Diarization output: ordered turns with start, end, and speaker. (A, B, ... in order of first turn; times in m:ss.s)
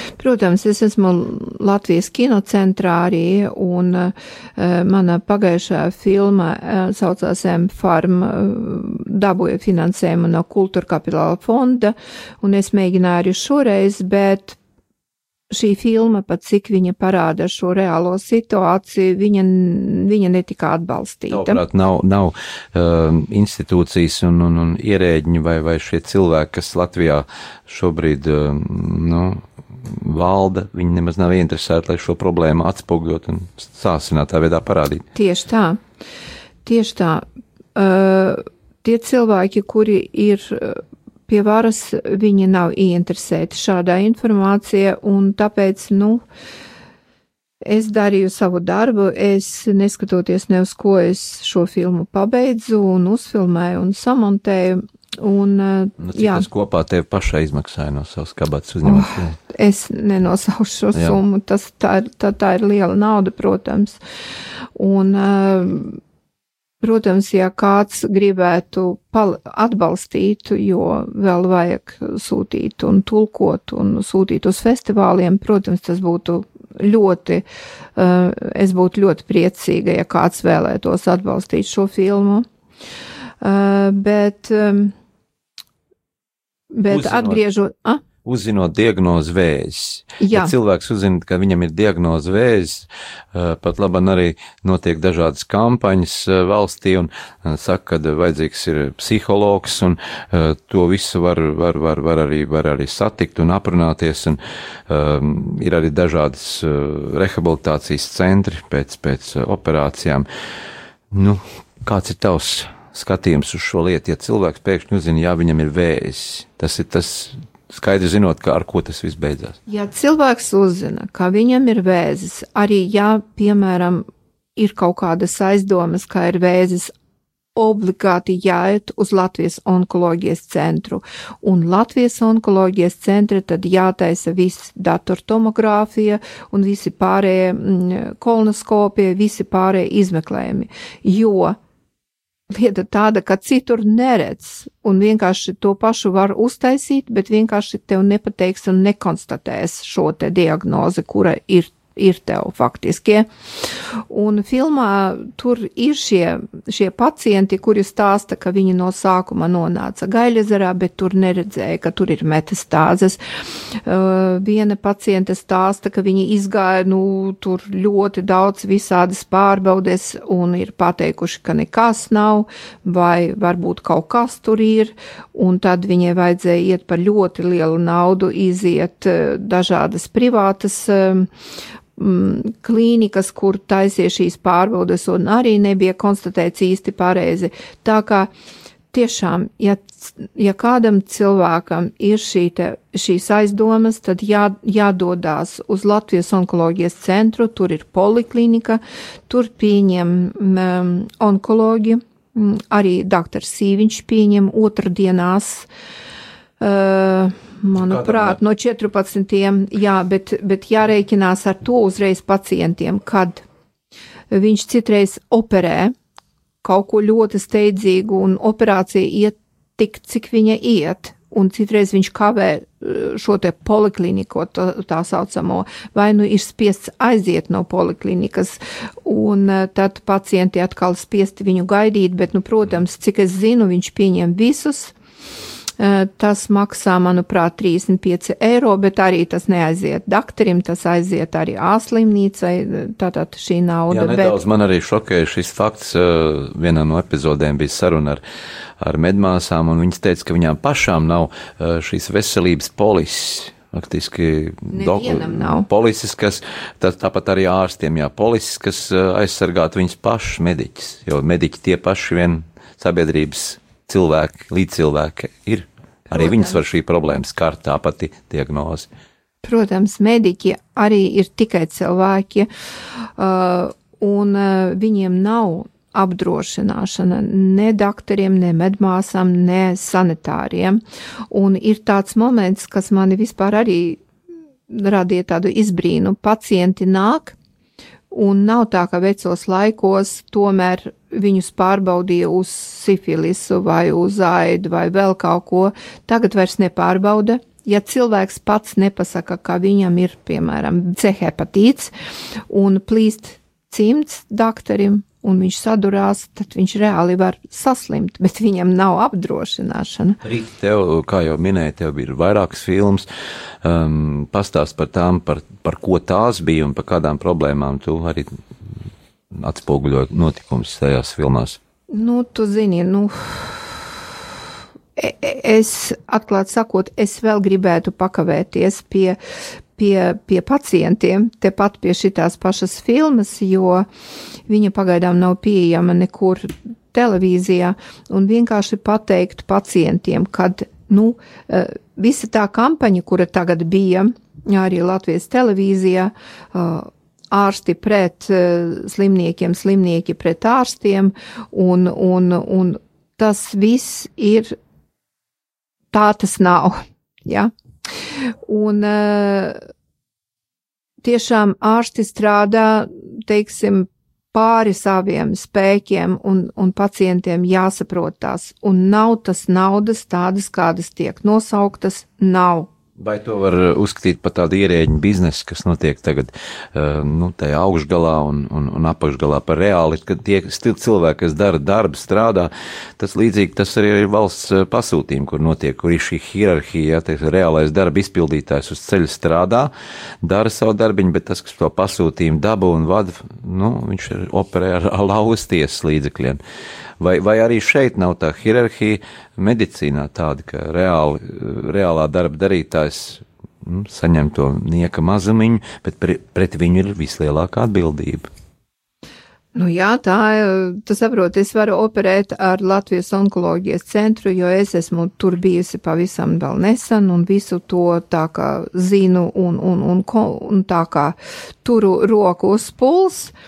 0:00.2-0:14.6 A
0:15.5-0:21.6 A
0:21.3-0:35.0 B
0:35.2-0:35.8 A
0:36.6-0:37.2 A
0:37.8-0:46.2 A
0:47.6-0:56.5 A
0:56.0-0:59.4 B
0:58.8-1:04.0 A
1:00.9-1:01.2 B
1:04.8-1:06.0 A
1:06.8-1:17.4 A
1:18.0-1:22.5 A
1:23.4-1:24.9 A
1:26.7-1:28.0 A
1:26.9-1:27.4 B
1:28.2-1:50.3 B
1:30.2-1:30.5 A
1:51.1-1:59.6 B
1:59.7-2:06.9 A
2:07.6-2:21.6 A
2:22.5-2:33.3 A
2:34.1-2:43.2 A
2:43.7-3:01.3 A
3:02.0-3:08.3 A
3:08.9-3:25.7 A
3:26.6-3:33.4 A
3:27.8-3:28.4 B
3:34.3-3:36.0 A
3:36.6-3:55.0 A
3:55.8-4:04.4 A
4:03.9-4:08.2 B
4:08.8-4:28.9 B
4:14.7-4:15.7 A
4:26.1-4:26.6 A
4:29.4-4:40.8 A
4:41.3-4:44.0 A
4:44.7-4:47.4 A
4:48.1-5:01.9 A
5:02.5-5:10.2 A
5:10.2-5:13.1 B
5:13.6-5:18.4 B
5:19.3-5:21.6 B
5:21.9-5:24.0 A
5:25.0-5:29.2 A
5:29.8-5:33.9 A
5:34.5-5:54.6 A
5:55.9-5:57.5 A
5:58.4-5:59.6 A
6:01.0-6:12.7 A
6:13.0-6:29.7 B
6:30.2-6:36.4 B
6:37.0-6:48.3 B
6:49.6-7:03.3 A